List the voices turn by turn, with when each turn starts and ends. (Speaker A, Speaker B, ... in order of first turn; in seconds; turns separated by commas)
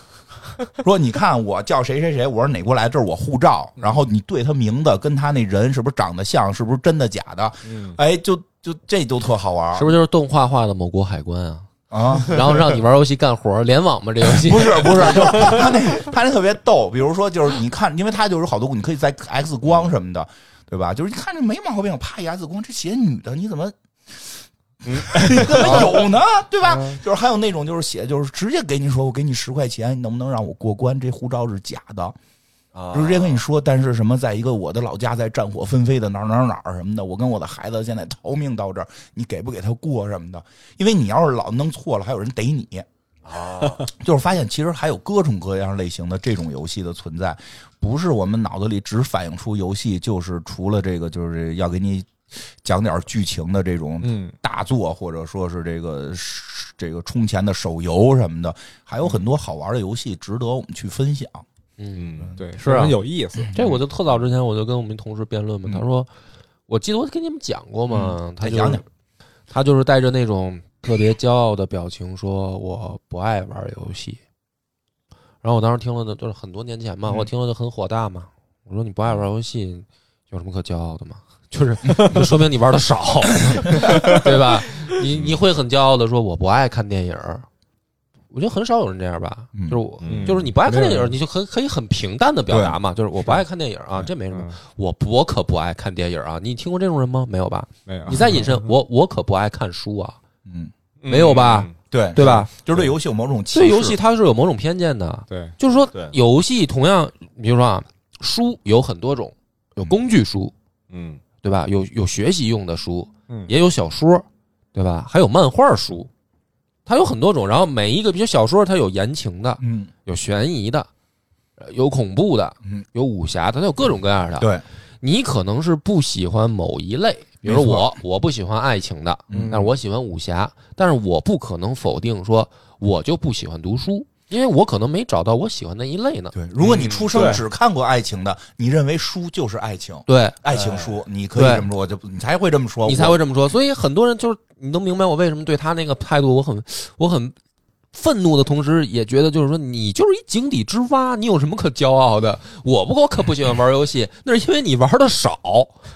Speaker A: 0.7-10.0, Speaker B: 7.7-8.0, Speaker C: 9.7-15.7, Speaker A: 11.9-12.6, Speaker A: 14.3-32.2, Speaker D: 24.8-26.0, Speaker D: 32.7-33.4, Speaker A: 32.9-42.9, Speaker D: 43.3-43.9, Speaker A: 43.6-61.5, Speaker B: 54.0-54.3, Speaker C: 61.8-63.0, Speaker D: 62.0-62.4, Speaker B: 62.4-63.5, Speaker A: 63.4-63.7, Speaker C: 63.5-66.1, Speaker C: 66.7-68.8, Speaker A: 67.9-68.8, Speaker C: 69.5-74.2, Speaker C: 75.4-87.5, Speaker A: 81.9-82.2, Speaker A: 83.7-84.2, Speaker C: 88.3-100.2, Speaker A: 89.5-89.8, Speaker D: 90.0-90.4, Speaker B: 90.1-91.2, Speaker A: 92.5-92.8, Speaker B: 97.9-98.5, Speaker A: 100.5-100.7, Speaker D: 101.0-101.8, Speaker C: 101.1-102.5, Speaker A: 101.9-104.0, Speaker C: 103.5-110.5, Speaker B: 105.3-105.5, Speaker D: 110.9-111.2, Speaker C: 111.4-116.1, Speaker C: 116.9-120.9, Speaker A: 119.6-119.9, Speaker C: 121.6-136.3, Speaker A: 127.5-128.0, Speaker A: 129.3-129.7, Speaker B: 129.3-129.7, Speaker A: 136.3-143.2, Speaker D: 136.6-137.4, Speaker C: 140.1-140.4, Speaker D: 140.5-141.0, Speaker C: 141.3-141.7, Speaker C: 142.8-147.3, Speaker C: 147.9-155.8